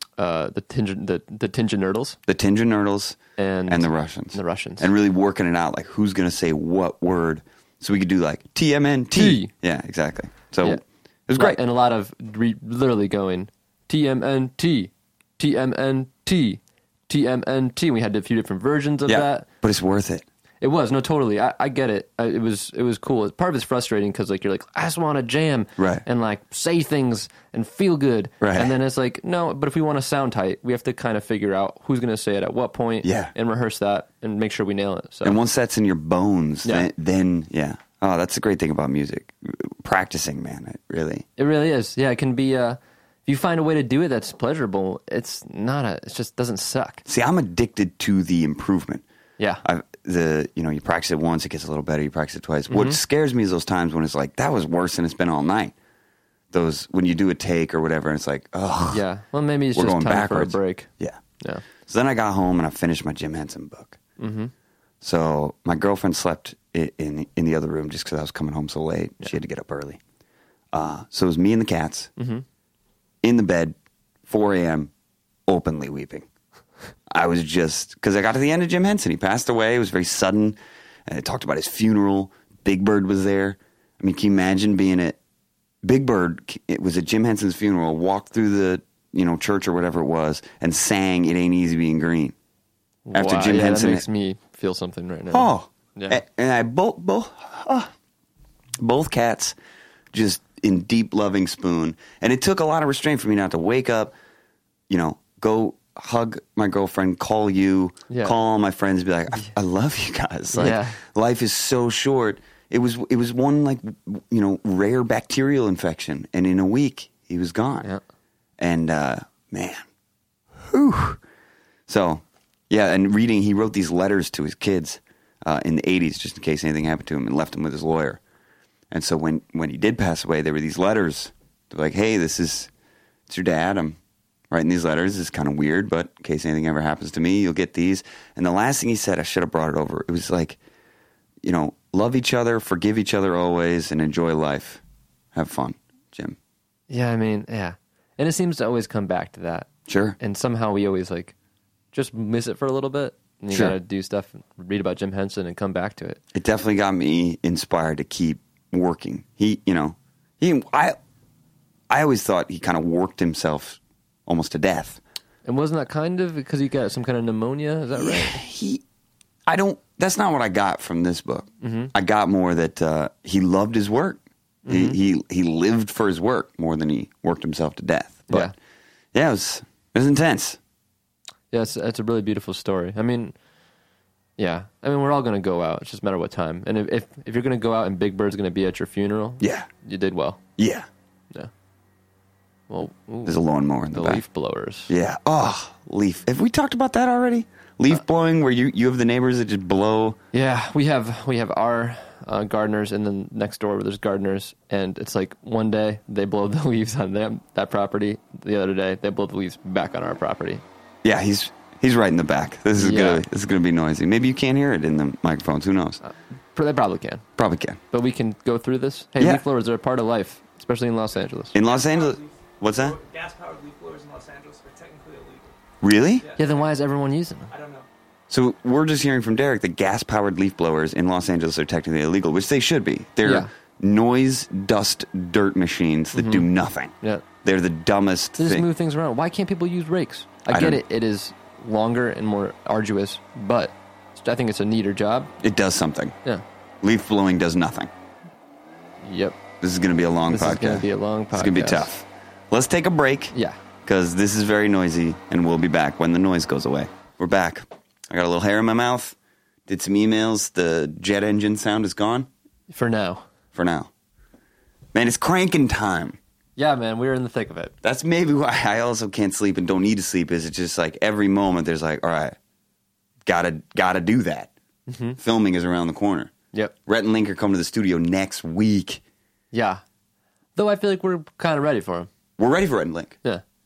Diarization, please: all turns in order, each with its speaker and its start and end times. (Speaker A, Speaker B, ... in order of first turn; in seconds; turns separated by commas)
Speaker A: 0.2-2.2, Speaker B: 2.3-11.6, Speaker A: 3.4-4.9, Speaker A: 9.2-9.5, Speaker A: 11.3-19.5, Speaker B: 19.1-20.3, Speaker A: 20.6-35.4, Speaker B: 25.8-26.0, Speaker B: 28.4-28.7, Speaker B: 33.0-33.3, Speaker B: 35.2-41.3, Speaker A: 41.4-47.0, Speaker B: 47.1-49.0, Speaker B: 49.6-55.7, Speaker A: 52.7-53.0, Speaker B: 56.5-59.0, Speaker A: 58.9-61.6, Speaker B: 59.8-61.2, Speaker B: 61.9-64.0, Speaker A: 64.2-64.5, Speaker B: 65.0-70.0, Speaker B: 70.7-72.1, Speaker A: 72.2-72.5, Speaker B: 73.2-73.8, Speaker B: 74.3-74.9, Speaker B: 75.5-76.3, Speaker B: 77.1-85.2, Speaker B: 85.8-92.3, Speaker A: 93.1-96.2, Speaker B: 93.1-94.0, Speaker B: 95.3-97.9, Speaker B: 98.8-99.5, Speaker B: 100.1-104.1, Speaker B: 104.9-117.9, Speaker A: 108.1-108.4, Speaker A: 110.5-111.0, Speaker B: 118.6-119.8, Speaker B: 120.6-121.2, Speaker B: 121.9-128.2, Speaker B: 128.9-132.7, Speaker B: 133.3-134.0, Speaker B: 134.5-140.6, Speaker B: 141.4-144.8, Speaker B: 145.3-146.4, Speaker A: 146.9-151.3, Speaker B: 149.9-150.2, Speaker A: 151.9-156.2, Speaker B: 153.5-153.8, Speaker B: 156.3-161.0, Speaker B: 161.9-165.0, Speaker A: 165.5-168.4, Speaker B: 168.0-168.8, Speaker B: 169.5-178.5, Speaker A: 171.6-171.9, Speaker A: 174.7-175.0, Speaker A: 178.3-178.5, Speaker B: 179.1-180.6, Speaker A: 181.5-183.3, Speaker A: 184.4-190.4, Speaker B: 189.4-189.7, Speaker B: 190.6-190.9, Speaker A: 192.7-193.4, Speaker B: 193.2-194.2, Speaker A: 193.9-194.9, Speaker B: 194.9-200.2, Speaker A: 200.3-210.6, Speaker B: 211.0-216.0, Speaker A: 212.8-213.2, Speaker A: 216.0-217.2, Speaker B: 217.4-217.8, Speaker A: 217.9-221.6, Speaker B: 219.2-219.4, Speaker B: 221.5-223.0, Speaker C: 221.6-225.6, Speaker B: 225.8-226.3, Speaker C: 226.2-226.7, Speaker A: 226.4-227.5, Speaker C: 227.5-227.9, Speaker B: 228.3-238.7, Speaker A: 233.2-233.5, Speaker A: 236.1-236.5, Speaker A: 238.4-245.3, Speaker B: 240.5-240.8, Speaker B: 245.4-246.2, Speaker B: 246.8-247.9, Speaker A: 249.0-249.4, Speaker B: 249.6-253.3, Speaker A: 250.3-251.9, Speaker A: 253.3-253.6, Speaker B: 253.8-259.2, Speaker B: 259.7-262.3, Speaker A: 262.7-263.2, Speaker B: 263.5-263.9, Speaker B: 264.9-266.2, Speaker A: 266.6-267.7, Speaker B: 267.8-272.4, Speaker B: 273.3-274.5, Speaker A: 274.9-275.2, Speaker B: 275.2-276.3, Speaker B: 276.9-279.0, Speaker A: 279.5-279.8, Speaker A: 280.6-282.1, Speaker B: 282.4-283.2